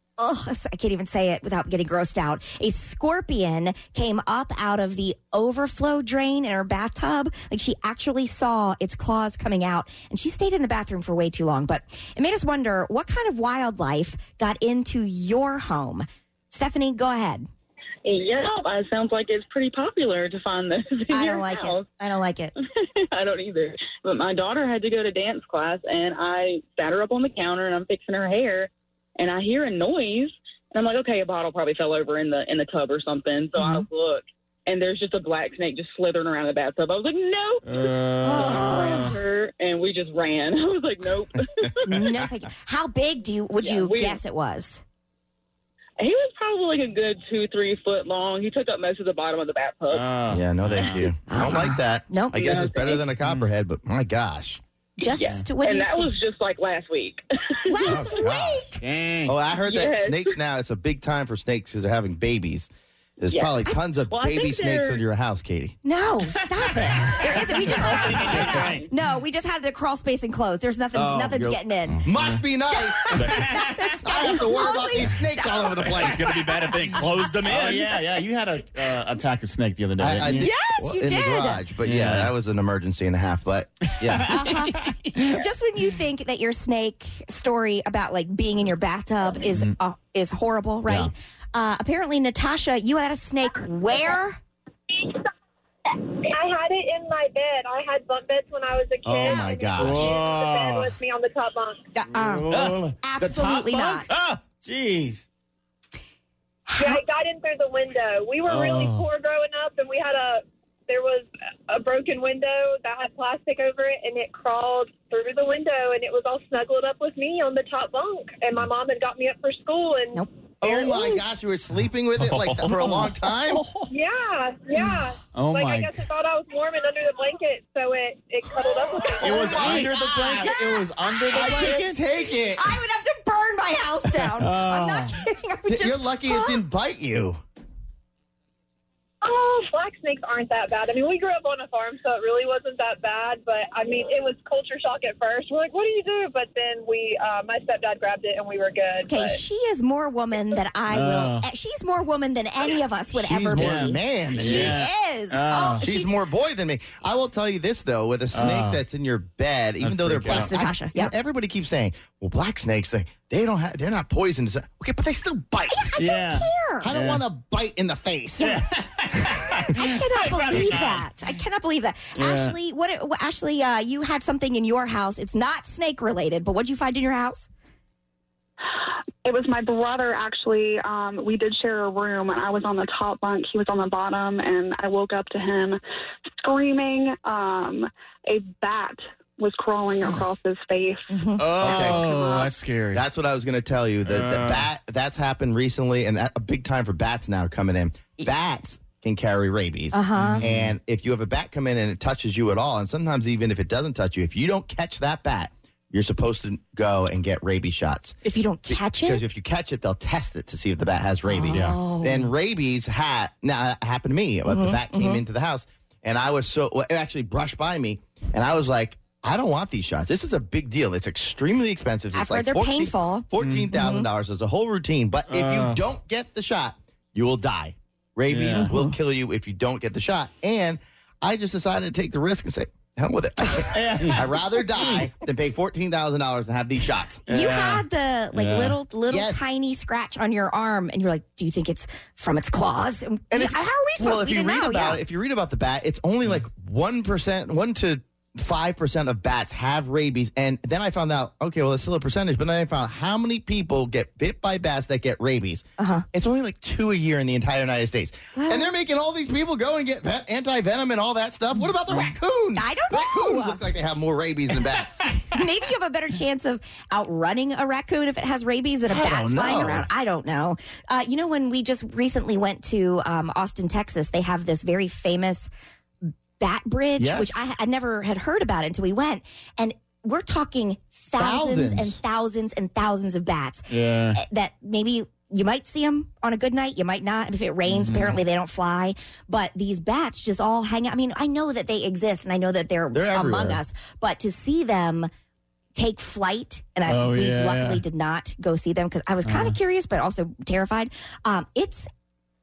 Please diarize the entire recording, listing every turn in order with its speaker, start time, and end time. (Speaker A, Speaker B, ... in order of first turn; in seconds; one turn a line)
Speaker A: 0.2-17.5
Speaker B: 18.1-21.9
Speaker A: 21.1-22.5
Speaker B: 23.1-42.1
Speaker A: 33.6-33.9
Speaker C: 37.7-39.1
Speaker A: 38.2-39.1
Speaker A: 41.8-44.8
Speaker B: 43.6-44.2
Speaker B: 46.0-50.1
Speaker C: 49.9-51.1
Speaker D: 50.3-54.6
Speaker A: 51.3-52.5
Speaker B: 52.3-53.0
Speaker A: 55.0-56.1
Speaker B: 55.0-58.1
Speaker A: 57.7-58.8
Speaker D: 57.9-58.7
Speaker C: 58.8-59.4
Speaker D: 59.2-65.8
Speaker B: 59.6-60.3
Speaker B: 63.3-65.0
Speaker A: 65.8-72.0
Speaker C: 67.2-68.8
Speaker B: 67.8-68.8
Speaker D: 70.9-73.2
Speaker C: 72.2-72.4
Speaker A: 72.7-75.8
Speaker E: 73.1-73.5
Speaker C: 73.2-74.4
Speaker D: 74.0-76.2
Speaker E: 75.8-77.9
Speaker C: 77.5-80.5
Speaker D: 80.0-84.4
Speaker A: 80.3-81.7
Speaker C: 81.8-82.3
Speaker C: 84.0-85.4
Speaker A: 84.3-94.4
Speaker F: 94.9-95.2
Speaker F: 95.9-101.8
Speaker D: 99.0-100.2
Speaker C: 99.8-100.9
Speaker A: 102.0-104.1
Speaker C: 102.1-105.2
Speaker A: 106.7-107.0
Speaker F: 106.8-121.2
Speaker C: 108.5-109.1
Speaker D: 120.6-123.6
Speaker E: 122.2-122.8
Speaker C: 122.8-123.8
Speaker F: 123.9-129.8
Speaker A: 124.8-125.0
Speaker C: 125.3-126.0
Speaker A: 129.1-131.8
Speaker C: 129.2-132.6
Speaker D: 129.4-130.5
Speaker D: 131.3-132.4
Speaker A: 132.5-136.6
Speaker C: 134.2-135.2
Speaker D: 135.7-137.4
Speaker F: 139.2-149.4
Speaker A: 149.1-156.2
Speaker C: 150.9-151.5
Speaker D: 153.1-154.8
Speaker C: 153.6-155.9
Speaker D: 155.8-165.9
Speaker C: 158.3-158.8
Speaker C: 159.8-160.6
Speaker A: 160.3-161.1
Speaker A: 165.8-166.9
Speaker C: 166.0-167.2
Speaker D: 166.8-168.6
Speaker C: 168.4-171.1
Speaker A: 169.3-177.5
Speaker C: 172.2-172.6
Speaker G: 179.2-191.1
Speaker A: 191.1-191.4
Speaker C: 191.4-193.0
Speaker D: 191.5-192.3
Speaker D: 192.9-208.2
Speaker C: 194.1-194.7
Speaker A: 199.9-200.4
Speaker C: 200.2-200.7
Speaker A: 208.2-209.2
Speaker D: 208.7-237.2
Speaker A: 211.3-212.3
Speaker E: 211.5-211.8
Speaker A: 214.5-215.2
Speaker A: 222.1-224.1
Speaker C: 223.4-223.8
Speaker C: 225.3-225.8
Speaker C: 228.3-228.7
Speaker A: 228.6-228.9
Speaker C: 233.7-234.4
Speaker C: 237.3-238.8
Speaker A: 237.3-245.0
Speaker D: 239.1-239.4
Speaker D: 243.3-265.0
Speaker A: 255.8-256.1
Speaker A: 258.4-258.7
Speaker A: 262.6-263.6
Speaker A: 265.3-275.5
Speaker D: 268.9-269.9
Speaker A: 276.4-295.1
Speaker D: 277.0-277.4
Speaker D: 281.2-282.0
Speaker C: 283.7-284.2
Speaker C: 287.7-288.2
Speaker D: 292.9-293.6
Speaker A: 295.8-301.9
Speaker C: 296.9-297.8
Speaker C: 299.2-299.6